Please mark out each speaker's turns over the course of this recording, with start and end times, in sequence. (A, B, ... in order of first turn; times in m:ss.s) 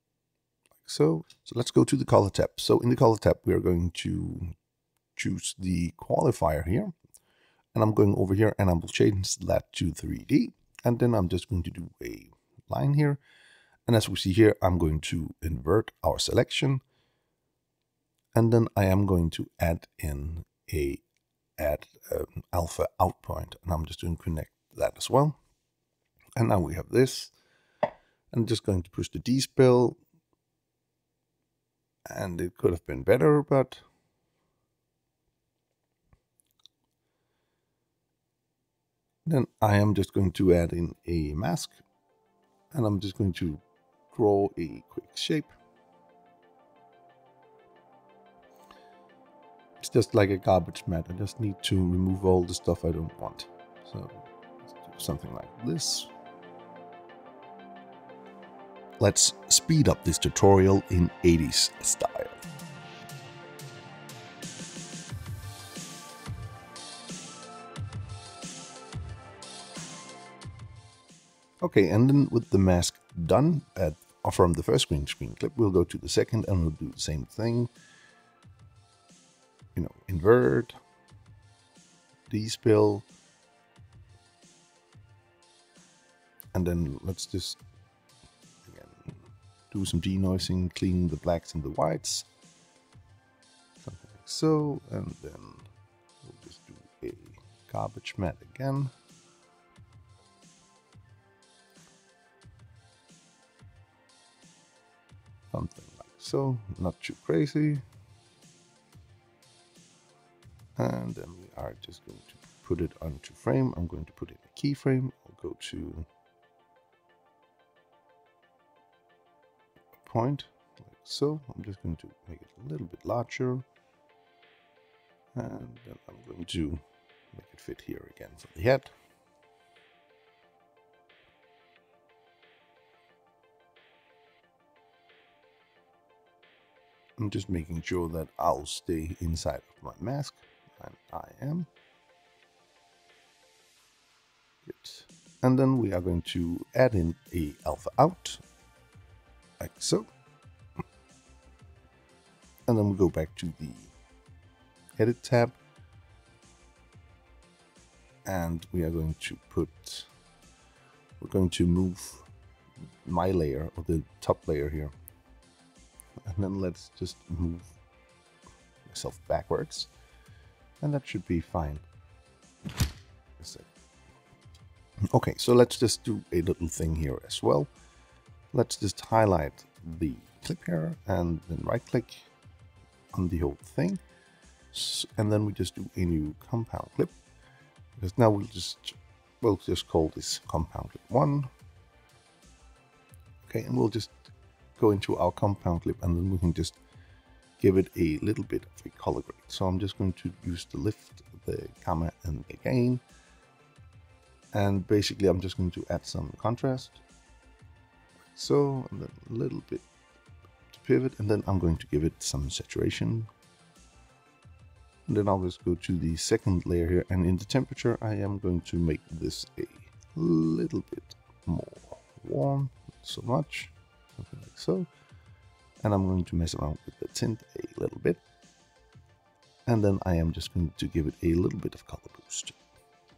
0:00.8-0:04.5 A
0:05.2-0:06.9 A
0:07.7-0:13.2 A
0:13.8-0:16.8 A
0:18.3-0:21.0 A
0:21.6-0:25.4 A
0:26.4-0:27.3 A
0:28.3-0:30.0 A
0:32.1-0:33.8 A
0:39.2-0:41.8 A
0:42.7-0:45.5 A
0:49.8-0:56.1 A
0:59.0-1:02.4 A
1:11.6-1:17.7 A
1:19.7-1:20.8 A
1:22.3-1:23.1 A
1:26.5-1:27.6 A
1:28.6-1:29.2 A
1:29.7-1:32.3 A
1:33.8-1:35.7 A
1:36.2-1:38.9 A
1:45.5-1:47.8 A
1:50.8-1:56.1 A
2:00.0-2:03.6 A
2:05.3-2:08.9 A
2:17.2-2:21.7 A
2:24.6-2:28.4 A
2:29.6-2:30.1 A
2:32.7-2:33.9 A
2:35.0-2:35.6 A
2:38.2-2:40.1 A
2:41.2-2:42.3 A
2:43.0-2:44.9 A
2:46.2-2:47.7 A
2:48.8-2:49.9 A
2:50.8-2:51.8 A
2:53.4-2:53.7 A
2:55.1-2:57.7 A
2:58.5-3:02.3 A
3:03.1-3:04.0 A
3:04.7-3:07.1 A
3:08.0-3:11.5 A
3:13.5-3:16.8 A
3:17.6-3:23.0 A
3:24.5-3:27.0 A
3:28.3-3:29.8 A
3:30.7-3:33.3 A
3:35.1-3:44.9 A
3:45.8-3:48.2 A
3:49.6-3:52.6 A